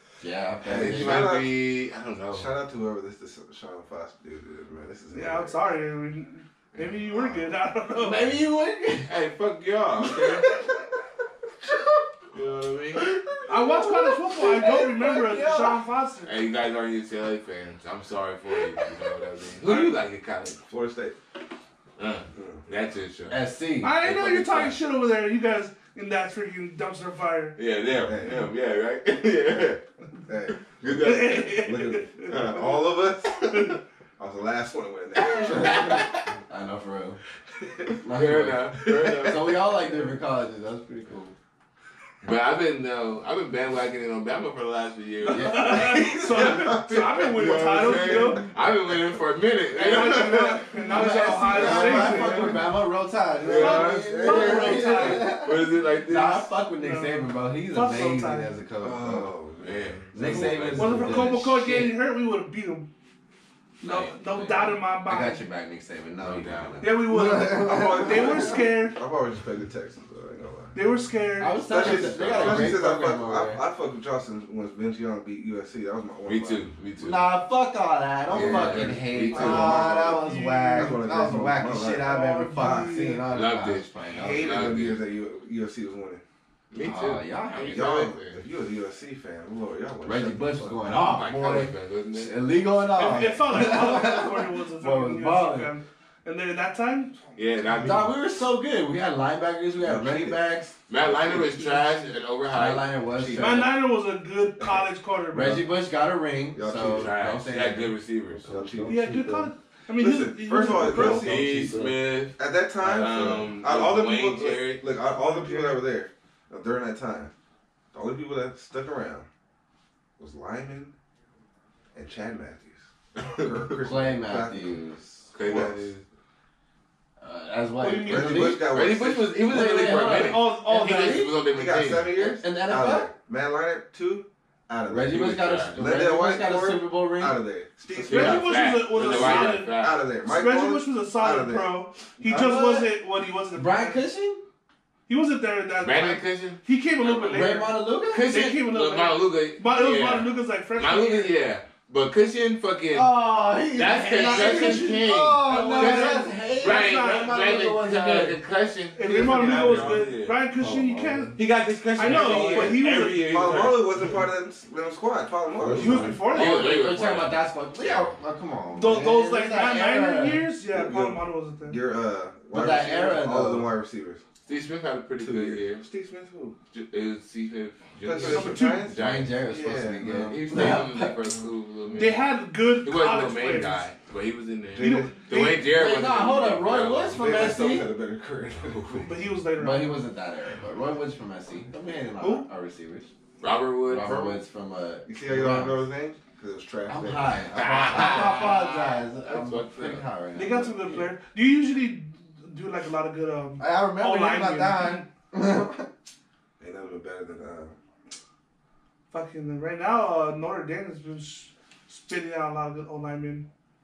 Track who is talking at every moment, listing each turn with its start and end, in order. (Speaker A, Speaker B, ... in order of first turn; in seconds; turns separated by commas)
Speaker A: 0.2-1.3, Speaker B: 0.6-1.6, Speaker C: 0.7-2.5, Speaker B: 2.3-5.6, Speaker D: 5.1-8.3, Speaker B: 7.1-7.4, Speaker A: 7.9-9.1, Speaker C: 9.1-10.4, Speaker A: 10.0-10.8, Speaker A: 11.6-12.1, Speaker C: 12.3-13.1, Speaker A: 12.9-15.8, Speaker D: 13.5-16.4, Speaker C: 16.2-20.6, Speaker B: 20.7-21.1, Speaker C: 22.0-23.4, Speaker B: 22.3-22.6, Speaker A: 23.3-24.0, Speaker D: 23.8-27.6, Speaker C: 24.0-24.8, Speaker C: 27.6-29.8, Speaker B: 28.0-28.5, Speaker B: 30.3-36.2, Speaker C: 30.8-31.6, Speaker D: 31.0-33.8, Speaker C: 35.6-36.1, Speaker A: 35.6-37.2, Speaker B: 37.6-38.0, Speaker A: 38.0-41.3, Speaker C: 38.1-39.7, Speaker B: 38.8-39.3, Speaker C: 42.2-52.6, Speaker D: 45.2-48.5, Speaker A: 45.3-46.0, Speaker B: 45.8-48.4, Speaker D: 49.7-52.7, Speaker A: 50.9-59.3, Speaker C: 53.4-56.5, Speaker D: 53.5-55.4, Speaker D: 56.8-58.5, Speaker B: 58.8-60.7, Speaker C: 59.6-61.4, Speaker A: 60.1-62.0, Speaker D: 60.8-62.9, Speaker D: 63.8-65.4, Speaker C: 63.8-64.6, Speaker A: 64.4-68.6, Speaker C: 66.2-67.0, Speaker D: 66.8-69.0, Speaker B: 67.5-70.8, Speaker D: 70.7-71.6, Speaker A: 71.4-73.6, Speaker B: 71.6-76.7, Speaker C: 71.8-72.8, Speaker C: 76.2-77.3, Speaker A: 77.0-84.5, Speaker B: 78.3-80.2, Speaker C: 78.3-79.9, Speaker D: 79.4-81.0, Speaker B: 80.7-83.0, Speaker D: 82.0-83.3, Speaker C: 83.3-85.0, Speaker B: 84.1-86.2, Speaker C: 86.7-88.4, Speaker A: 86.8-87.9, Speaker B: 87.7-91.0, Speaker A: 90.0-95.7, Speaker C: 90.8-92.3, Speaker D: 92.9-97.2, Speaker C: 97.3-98.1, Speaker A: 97.8-100.7, Speaker B: 99.8-101.7, Speaker C: 100.9-102.9, Speaker A: 102.5-103.7, Speaker B: 103.2-103.7, Speaker D: 103.4-105.7, Speaker A: 105.3-107.9, Speaker B: 106.5-107.2, Speaker C: 106.9-108.5, Speaker B: 108.4-109.2, Speaker A: 108.5-109.5, Speaker D: 108.9-111.5, Speaker B: 110.0-111.8, Speaker C: 110.9-114.8, Speaker A: 111.5-111.9, Speaker B: 112.3-117.3, Speaker D: 115.1-115.8, Speaker B: 117.9-119.3, Speaker B: 120.2-120.9, Speaker B: 121.9-124.8, Speaker C: 123.2-123.5, Speaker A: 123.8-125.2, Speaker B: 125.3-125.9, Speaker C: 125.3-126.0, Speaker A: 127.2-128.7, Speaker D: 127.8-128.6, Speaker B: 128.0-129.4, Speaker C: 128.7-132.3, Speaker A: 129.4-131.3, Speaker D: 129.8-131.3, Speaker B: 131.5-141.8, Speaker A: 132.3-133.1, Speaker A: 134.9-137.4, Speaker C: 135.1-135.7, Speaker C: 138.0-140.0, Speaker D: 138.1-144.0, Speaker A: 142.2-142.9, Speaker A: 143.5-144.4, Speaker D: 145.1-151.3, Speaker C: 145.8-147.5, Speaker A: 147.3-148.5, Speaker C: 148.1-153.2, Speaker A: 152.9-158.4, Speaker C: 153.7-160.4, Speaker D: 154.1-157.5, Speaker D: 158.9-161.4, Speaker A: 159.4-159.9, Speaker A: 160.6-161.4, Speaker C: 161.3-164.0, Speaker D: 161.9-163.4, Speaker A: 162.0-162.8, Speaker B: 163.1-166.2, Speaker A: 165.6-170.5, Speaker D: 165.7-166.7, Speaker C: 166.2-168.1, Speaker D: 168.8-171.8, Speaker B: 170.7-174.2, Speaker A: 172.5-173.7, Speaker C: 174.4-175.8, Speaker B: 175.2-176.6, Speaker C: 176.7-179.4, Speaker B: 178.0-180.3, Speaker D: 178.2-178.9, Speaker A: 179.0-181.2, Speaker C: 180.2-182.3, Speaker D: 181.9-183.8, Speaker C: 182.8-187.6, Speaker B: 184.7-185.5, Speaker D: 184.8-185.7, Speaker A: 185.7-187.9, Speaker B: 187.1-189.1, Speaker C: 188.6-189.1, Speaker D: 189.1-190.0, Speaker A: 189.6-193.1, Speaker D: 192.2-192.5, Speaker C: 193.4-194.4, Speaker A: 193.9-195.8, Speaker B: 195.1-197.5, Speaker A: 196.9-201.1, Speaker C: 197.5-200.0, Speaker D: 200.3-205.1, Speaker A: 203.6-205.9, Speaker B: 206.6-207.8, Speaker D: 209.1-213.5